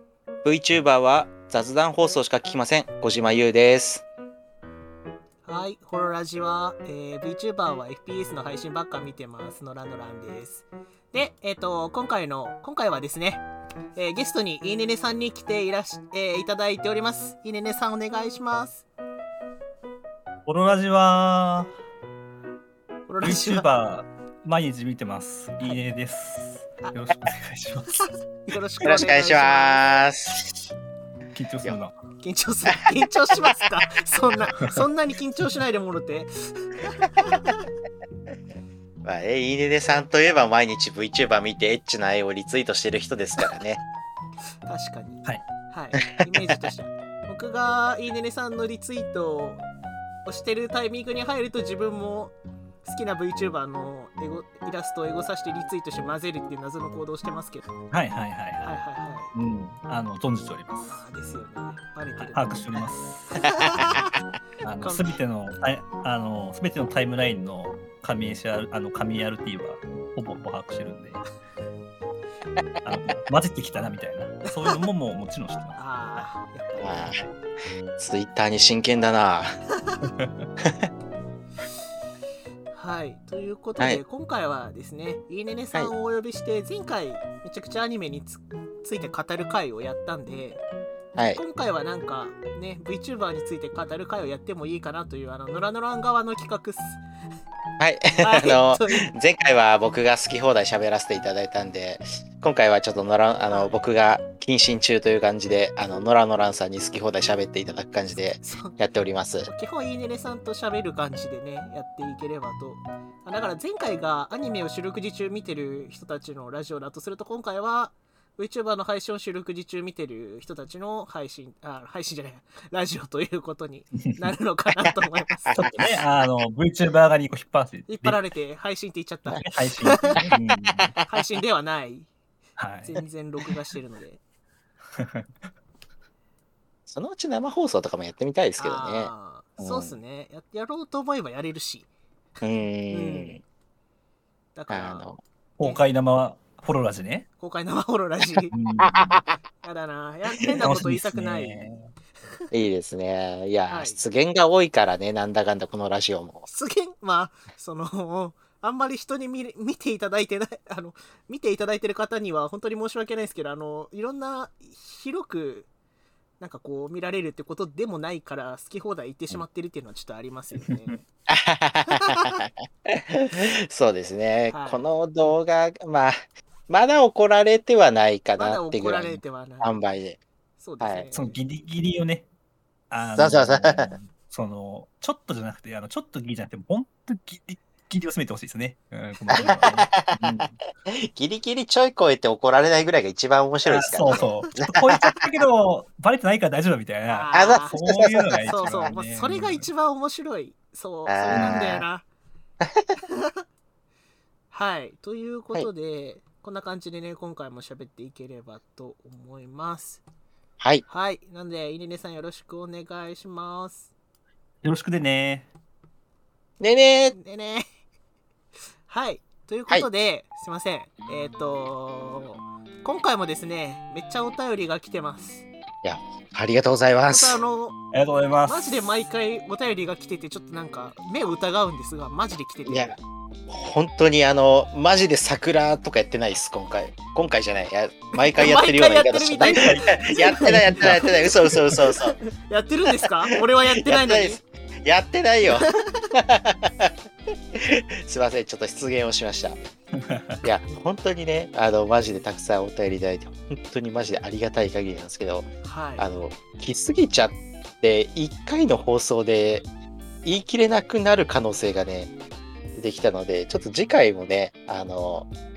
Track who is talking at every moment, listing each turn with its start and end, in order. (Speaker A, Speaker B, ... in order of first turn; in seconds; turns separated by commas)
Speaker A: 0.4-4.0, Speaker B: 5.5-18.8, Speaker C: 20.4-21.7, Speaker B: 23.1-23.7, Speaker C: 23.2-28.0, Speaker B: 28.4-29.8, Speaker A: 28.8-30.5, Speaker C: 31.3-31.9, Speaker B: 32.2-37.7, Speaker A: 39.0-43.8, Speaker B: 44.7-49.6, Speaker B: 50.3-57.7, Speaker C: 57.9-58.7, Speaker B: 58.6-59.3, Speaker C: 59.3-61.0, Speaker B: 60.8-62.8, Speaker C: 62.2-63.5, Speaker B: 63.4-64.1, Speaker C: 64.6-71.2, Speaker B: 64.8-65.1, Speaker C: 72.8-76.3, Speaker B: 75.8-77.2, Speaker A: 76.8-77.2, Speaker A: 78.0-79.5, Speaker A: 80.6-80.9, Speaker B: 82.7-90.6, Speaker A: 91.2-91.4, Speaker B: 91.3-97.0, Speaker A: 97.8-109.5, Speaker B: 98.1-99.1, Speaker B: 103.5-103.8, Speaker B: 108.4-108.7, Speaker B: 109.5-125.6, Speaker C: 124.0-124.2, Speaker A: 125.5-125.9, Speaker C: 125.6-128.2, Speaker B: 127.9-130.2, Speaker C: 129.4-131.0, Speaker A: 130.2-131.1, Speaker B: 131.1-132.1, Speaker C: 132.6-133.0, Speaker B: 132.8-134.2, Speaker C: 134.9-135.3, Speaker A: 136.9-140.0, Speaker B: 138.6-141.9, Speaker A: 142.4-143.4, Speaker B: 142.9-143.4, Speaker B: 144.6-145.8, Speaker A: 144.7-145.2, Speaker C: 145.6-147.3, Speaker B: 147.4-148.5, Speaker C: 148.5-149.2, Speaker A: 148.8-149.2, Speaker B: 149.6-151.6, Speaker C: 150.6-151.9, Speaker A: 152.5-156.5, Speaker B: 153.7-154.0, Speaker B: 156.5-165.7, Speaker B: 166.4-171.0, Speaker C: 170.7-171.0, Speaker A: 171.3-176.2, Speaker B: 171.9-172.4, Speaker B: 174.5-175.4, Speaker A: 176.7-180.2, Speaker B: 178.4-179.8, Speaker B: 180.6-181.4, Speaker A: 180.8-181.1, Speaker C: 181.1-182.3, Speaker C: 182.9-190.6, Speaker A: 183.2-183.9, Speaker B: 189.3-189.9, Speaker A: 189.5-195.2, Speaker C: 193.7-199.7, Speaker B: 197.1-197.8, Speaker A: 197.3-198.8, Speaker B: 198.4-202.1, Speaker A: 201.1-201.8, Speaker C: 201.3-201.7, Speaker A: 202.6-202.9, Speaker B: 203.0-203.4, Speaker B: 204.5-210.0, Speaker B: 210.9-213.9, Speaker C: 214.6-215.5, Speaker A: 216.6-217.2, Speaker B: 217.1-217.7, Speaker B: 218.9-225.5, Speaker A: 225.8-227.4, Speaker B: 227.1-227.8, Speaker C: 227.9-228.9, Speaker B: 228.5-233.0, Speaker A: 232.7-233.0, Speaker A: 233.5-242.2, Speaker B: 238.3-241.1, Speaker C: 239.4-241.2, Speaker B: 242.1-244.4, Speaker A: 243.8-246.9, Speaker B: 245.5-246.1, Speaker A: 247.5-249.6, Speaker C: 250.0-250.4, Speaker A: 250.4-259.7, Speaker B: 255.6-256.1, Speaker A: 260.2-262.1, Speaker A: 262.8-265.3